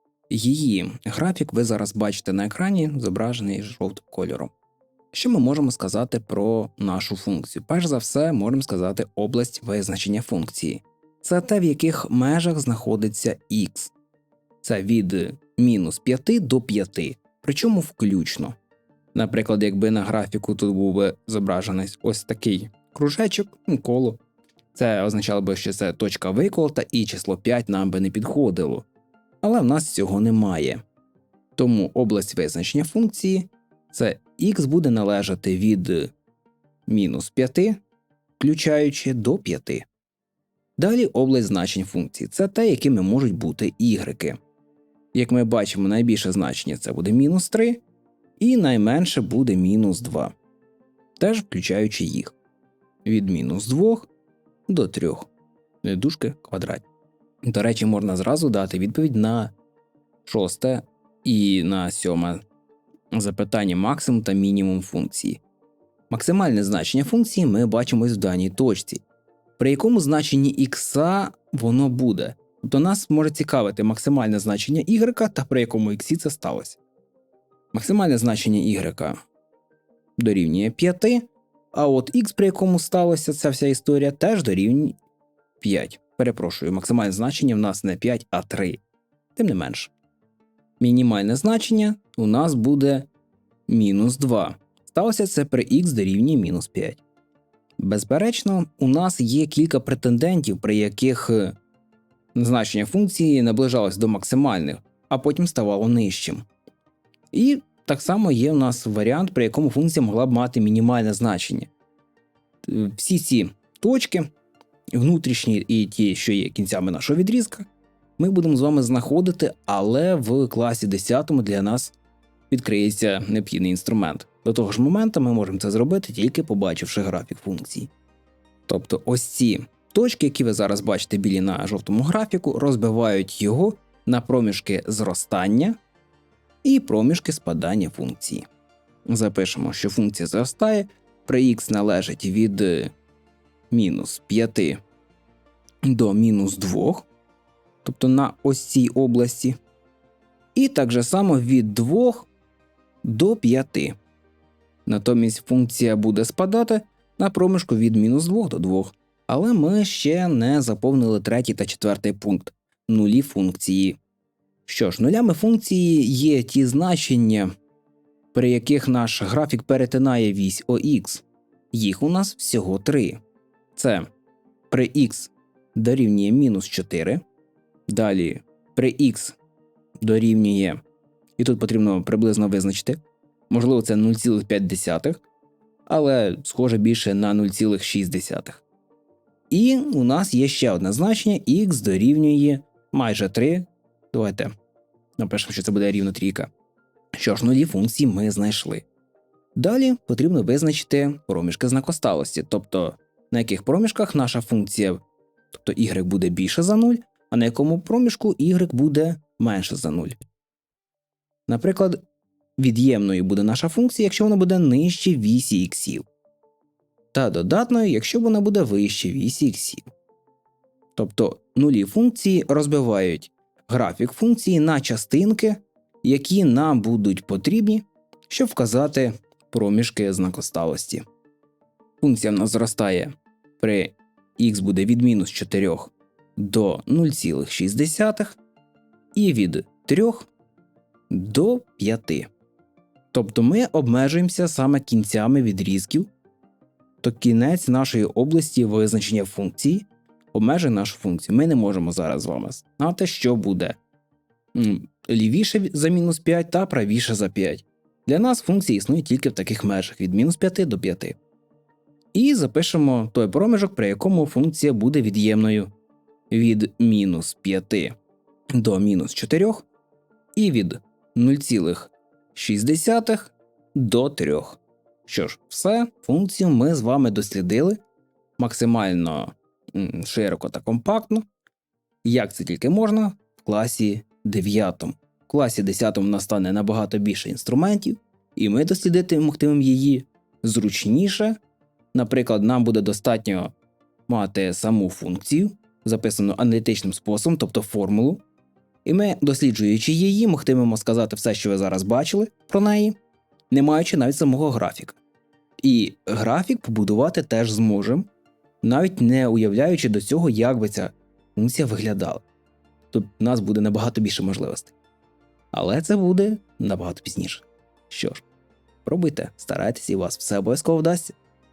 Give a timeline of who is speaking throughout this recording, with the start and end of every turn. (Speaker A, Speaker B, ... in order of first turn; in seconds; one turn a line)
Speaker A: 0.3-4.5
Speaker A: 5.1-13.9
Speaker A: 14.6-18.6
Speaker A: 19.1-24.2
Speaker A: 24.7-28.9
Speaker A: 29.4-30.8
Speaker A: 31.6-36.1
Speaker A: 36.9-37.8
Speaker A: 38.4-39.9
Speaker A: 40.8-44.4
Speaker A: 45.1-47.8
Speaker A: 48.4-50.3
Speaker A: 51.2-52.3
Speaker A: 53.0-54.1
Speaker A: 54.7-55.3
Speaker A: 55.8-56.8
Speaker A: 57.4-59.5
Speaker A: 60.2-62.4
Speaker A: 63.1-65.4
Speaker A: 66.1-69.0
Speaker A: 69.6-76.8
Speaker A: 77.7-79.2
Speaker A: 80.2-85.0
Speaker A: 85.6-88.8
Speaker A: 89.3-89.9
Speaker A: 90.8-93.1
Speaker A: 93.7-97.0
Speaker A: 97.8-101.5
Speaker A: 102.3-106.4
Speaker A: 107.3-111.7
Speaker A: 112.6-114.3
Speaker A: 114.9-117.7
Speaker A: 118.2-121.9
Speaker A: 122.5-127.9
Speaker A: 128.7-135.8
Speaker A: 136.6-138.4
Speaker A: 139.1-142.9
Speaker A: 143.7-144.8
Speaker A: 145.8-147.1
Speaker A: 147.8-149.6
Speaker A: 150.5-152.3
Speaker A: 153.0-153.9
Speaker A: 154.8-164.0
Speaker A: 164.7-167.5
Speaker A: 168.3-173.2
Speaker A: 173.7-174.1
Speaker A: 174.7-177.2
Speaker A: 177.9-179.4
Speaker A: 180.0-180.8
Speaker A: 181.4-183.0
Speaker A: 183.5-185.2
Speaker A: 185.9-188.6
Speaker A: 189.5-194.5
Speaker A: 195.2-196.5
Speaker A: 197.1-198.8
Speaker A: 199.5-205.0
Speaker A: 205.5-210.2
Speaker A: 211.5-212.0
Speaker A: 212.6-216.1
Speaker A: 217.1-219.8
Speaker A: 220.9-231.0
Speaker A: 232.0-238.4
Speaker A: 239.1-240.3
Speaker A: 241.1-242.3
Speaker A: 243.1-246.1
Speaker A: 247.0-253.8
Speaker A: 254.5-261.2
Speaker A: 262.1-265.7
Speaker A: 266.3-267.9
Speaker A: 268.5-269.6
Speaker A: 270.4-277.8
Speaker A: 278.4-281.2
Speaker A: 282.0-291.4
Speaker A: 291.9-293.5
Speaker A: 294.1-298.2
Speaker A: 298.8-303.0
Speaker A: 303.5-305.0
Speaker A: 305.6-308.1
Speaker A: 308.6-312.2
Speaker A: 312.9-314.7
Speaker A: 315.5-318.2
Speaker A: 318.8-321.1